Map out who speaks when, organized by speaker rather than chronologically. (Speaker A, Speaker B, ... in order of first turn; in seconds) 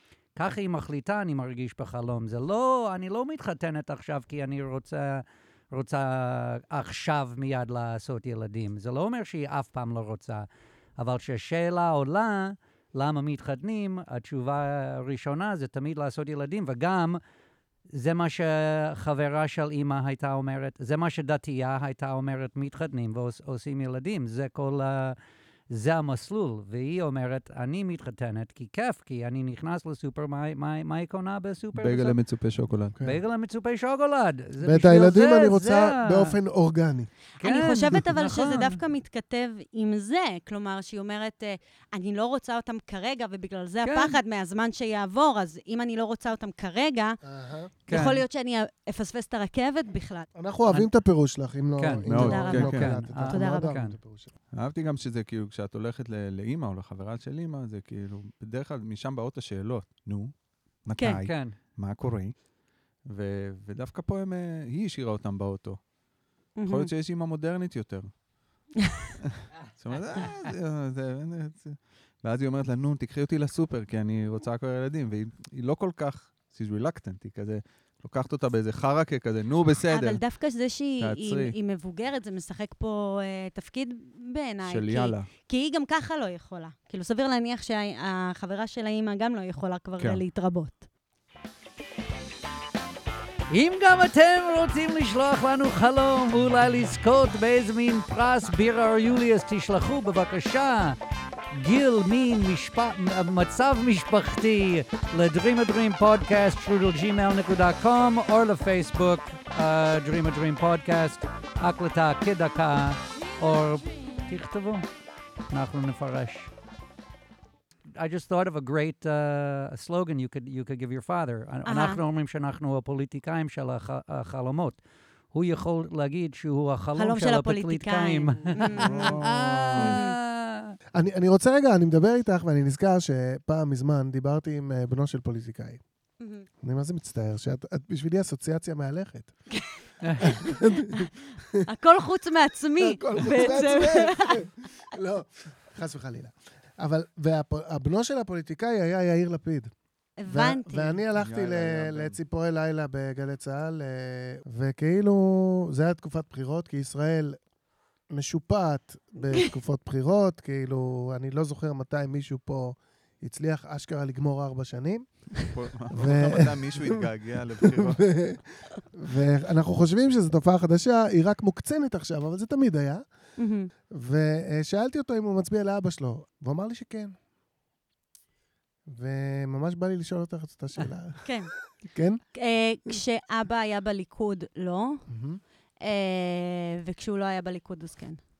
Speaker A: 0.3-17.2, 17.9-25.2, 25.7-32.2, 33.0-36.4, 37.4-38.8, 43.8-44.2, 47.9-48.2, 51.8-54.0, 61.2-61.5, 93.5-101.0, 101.5-114.8, 115.5-116.5, 117.9-130.8, 140.0-140.3
Speaker B: 31.7-33.0, 52.0-52.9, 54.5-62.5, 63.0-65.9, 66.7-68.7, 69.4-80.2, 81.0-81.5, 84.7-85.3, 128.7-129.9, 151.2-152.2, 165.5-168.3
Speaker C: 32.9-33.2, 34.6-37.1, 47.2-47.7, 50.4-54.3, 130.9-135.8, 136.6-139.4, 140.2-141.1, 142.8-149.7, 150.3-157.4, 158.1-167.0, 167.6-173.0, 173.9-177.2, 178.9-181.3, 181.8-182.2, 185.1-185.4
Speaker D: 37.4-47.2, 47.9-50.3, 52.1-53.8, 61.0-61.2, 66.6-66.9, 79.9-90.8, 121.6-122.0, 127.0-129.2, 129.8-130.2, 136.2-136.5, 139.5-139.8, 141.6-144.4, 150.2-151.0, 173.4-173.7, 181.2-181.5, 182.3-185.1, 185.8-188.2